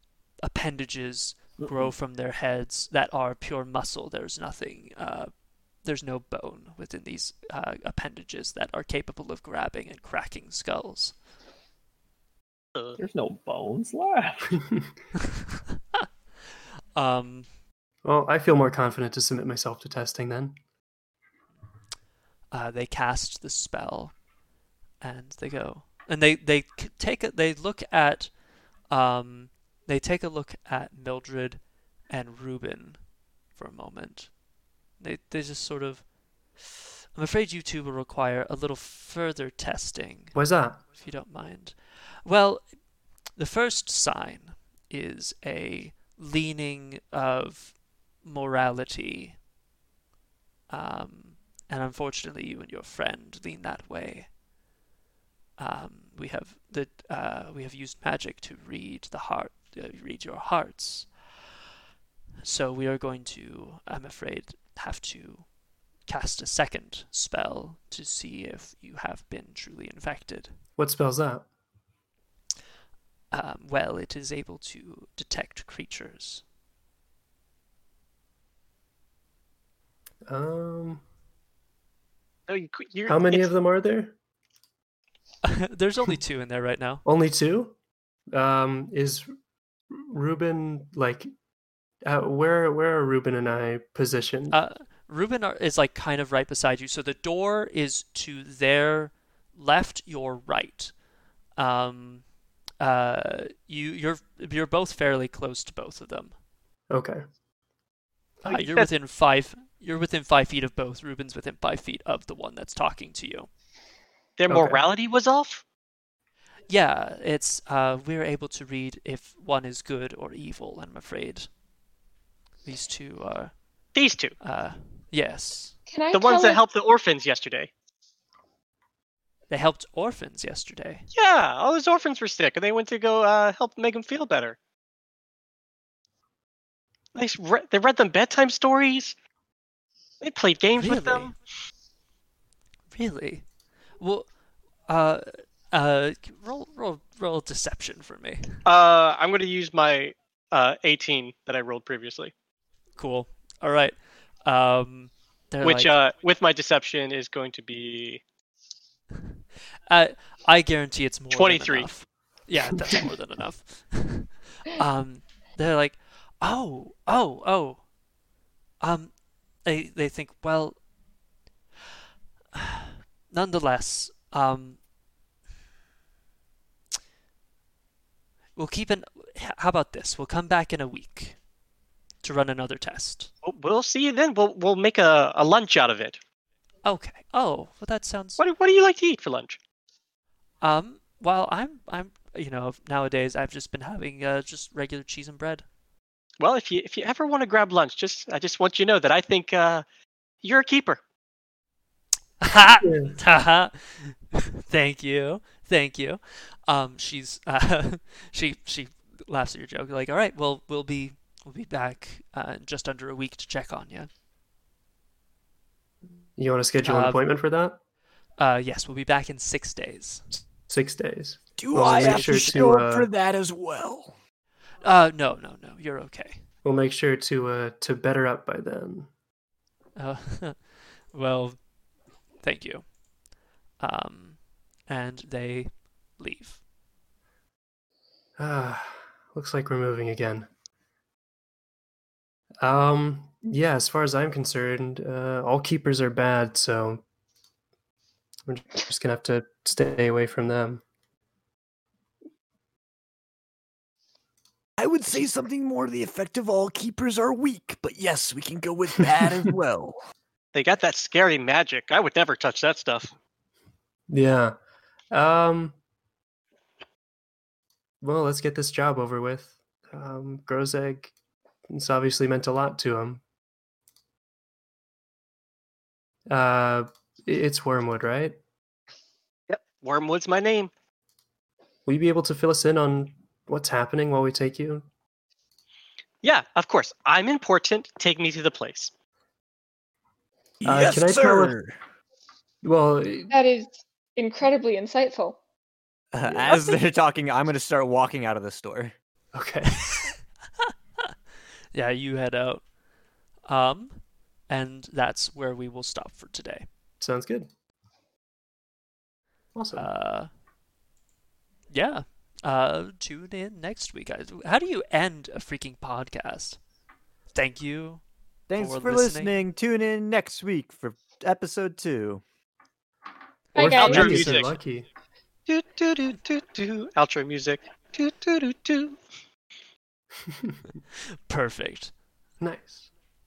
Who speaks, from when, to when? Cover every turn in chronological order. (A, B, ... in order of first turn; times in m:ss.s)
0:00.4-0:11.2 A
0:01.6-0:01.9 B
0:13.0-0:14.6 B
0:16.9-0:17.5 A
0:18.0-0:20.6 C
0:22.5-0:24.2 A
0:25.0-0:34.4 A
0:35.0-0:42.8 A
0:40.3-0:40.8 C
0:43.3-0:49.4 A
0:50.7-0:54.3 A
0:55.6-1:01.3 A
1:02.4-1:10.5 A
1:10.8-1:11.5 C
1:13.3-1:16.4 A
1:20.2-1:21.0 C
1:22.5-1:23.5 D
1:23.1-1:24.1 C
1:25.4-1:27.0 A
1:27.0-1:27.8 C
1:28.3-1:29.3 C
1:29.9-1:31.3 C
1:32.0-1:34.6 C
1:34.5-1:41.0 A
1:41.6-1:46.4 A
1:46.9-1:47.2 C
1:48.4-1:53.5 A
1:48.4-1:48.9 D
1:54.4-1:55.6 D
1:54.5-1:54.8 C
1:56.7-2:01.5 A
2:02.6-2:05.8 A
2:03.9-2:04.4 D
2:05.9-2:06.6 E
2:06.1-2:07.7 D
2:09.5-2:11.0 A
2:11.1-2:14.6 D
2:17.1-2:19.1 D
2:20.2-2:21.4 D
2:20.7-2:21.3 A
2:22.9-2:23.5 A
2:24.0-2:24.3 A
2:24.9-2:28.6 A
2:28.6-2:32.3 D
2:33.0-2:35.9 A
2:35.6-2:38.2 D
2:39.9-2:47.9 A
2:41.3-2:41.9 D
2:48.8-2:50.9 A
2:52.5-2:54.8 A
2:58.6-3:01.4 A
3:02.2-3:03.3 A
3:03.4-3:06.2 D
3:06.8-3:08.4 A
3:08.4-3:09.6 D
3:10.6-3:15.6 A
3:16.4-3:19.8 D
3:20.4-3:21.0 D
3:22.4-3:34.1 A
3:22.8-3:23.1 C
3:36.4-3:37.8 C
3:36.8-3:37.2 A
3:38.4-3:40.3 A
3:40.6-3:43.1 C
3:41.6-3:44.1 F
3:41.7-3:42.8 A
3:44.8-3:46.4 A
3:46.6-3:49.1 C
3:50.0-3:51.7 A
3:52.4-3:53.0 A
3:53.8-3:56.6 A
3:58.4-4:00.5 C
4:02.6-4:07.0 C
4:08.4-4:10.8 C
4:14.8-4:20.0 F
4:20.5-4:23.1 D
4:24.1-4:24.6 C
4:25.1-4:25.7 C
4:28.0-4:31.1 C
4:31.7-4:33.2 C
4:36.3-4:38.4 C
4:39.5-4:40.7 D
4:41.8-4:44.8 C
4:46.2-4:48.9 D
4:50.6-4:51.8 F
4:50.6-4:51.5 C
4:52.6-4:53.3 C
4:53.3-4:55.4 E
4:56.1-4:58.9 F
4:56.2-4:56.6 C
4:56.4-4:56.8 A
4:59.3-5:00.1 C
5:01.7-5:02.7 A
5:03.4-5:06.7 A
5:07.0-5:07.5 C
5:09.5-5:09.9 C
5:09.7-5:10.3 A
5:11.7-5:16.6 A
5:17.3-5:19.3 A
5:18.5-5:22.2 F
5:23.5-5:24.9 C
5:23.5-5:24.1 E
5:23.7-5:24.5 A
5:23.8-5:24.5 D
5:25.5-5:29.0 D
5:31.3-5:32.0 A
5:32.4-5:32.9 C